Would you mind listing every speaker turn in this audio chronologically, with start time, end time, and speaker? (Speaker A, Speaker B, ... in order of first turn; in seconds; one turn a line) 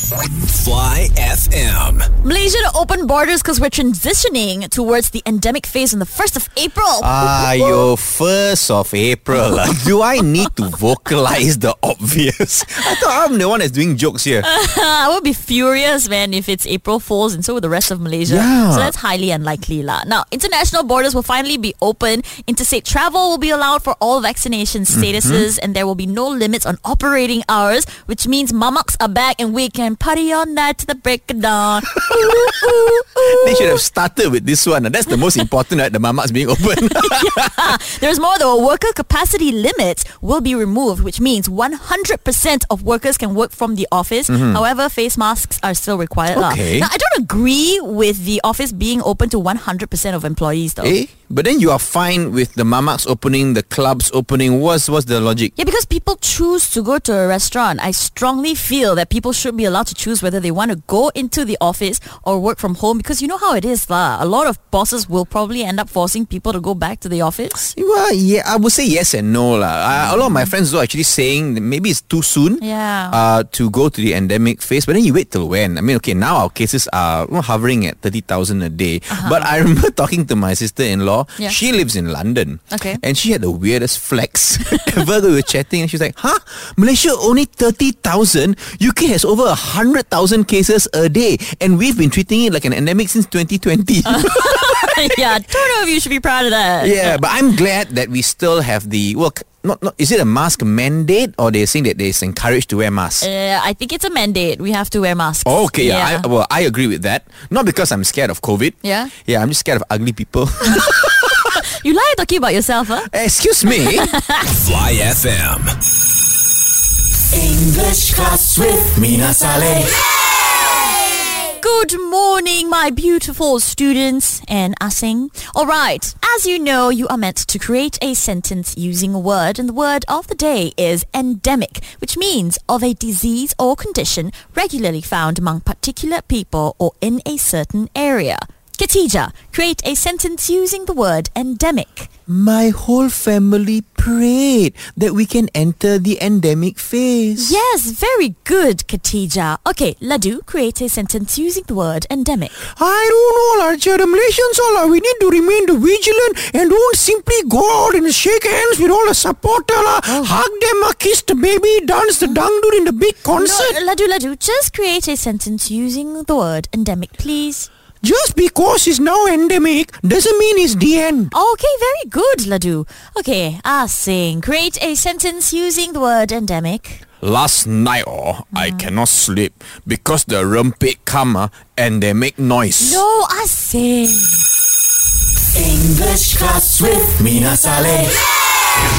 Speaker A: 0.3-2.1
Speaker B: 2.2-7.9
Speaker C: 7.0-14.5
Speaker B: 9.3-9.6
Speaker B: 14.4-33.8
Speaker C: 18.2-18.9
Speaker C: 24.9-25.4
Speaker C: 33.2-37.7
Speaker B: 36.9-50.9
Speaker C: 44.3-44.6
Speaker C: 46.3-46.9
Speaker C: 50.8-55.5
Speaker B: 55.6-67.7
Speaker C: 67.7-95.2
Speaker B: 70.0-70.5
Speaker B: 72.6-73.2
Speaker B: 79.1-79.5
Speaker B: 82.7-83.0
Speaker B: 94.0-97.2
Speaker C: 96.8-103.3
Speaker B: 103.2-106.2
Speaker C: 105.5-111.5
Speaker B: 108.8-109.1
Speaker B: 110.8-113.1
Speaker C: 113.1-114.1
Speaker B: 113.8-114.5
Speaker A: 114.5-115.7
Speaker B: 118.0-118.5
Speaker C: 118.8-119.5
Speaker B: 119.4-142.1
Speaker C: 142.3-147.5
Speaker B: 147.4-152.5
Speaker C: 152.8-163.8
Speaker B: 160.0-160.3
Speaker B: 163.3-167.7
Speaker C: 168.0-171.3
Speaker B: 171.3-177.0
Speaker C: 177.2-183.0
Speaker B: 178.5-178.9
Speaker B: 182.8-184.4
Speaker C: 187.1-188.1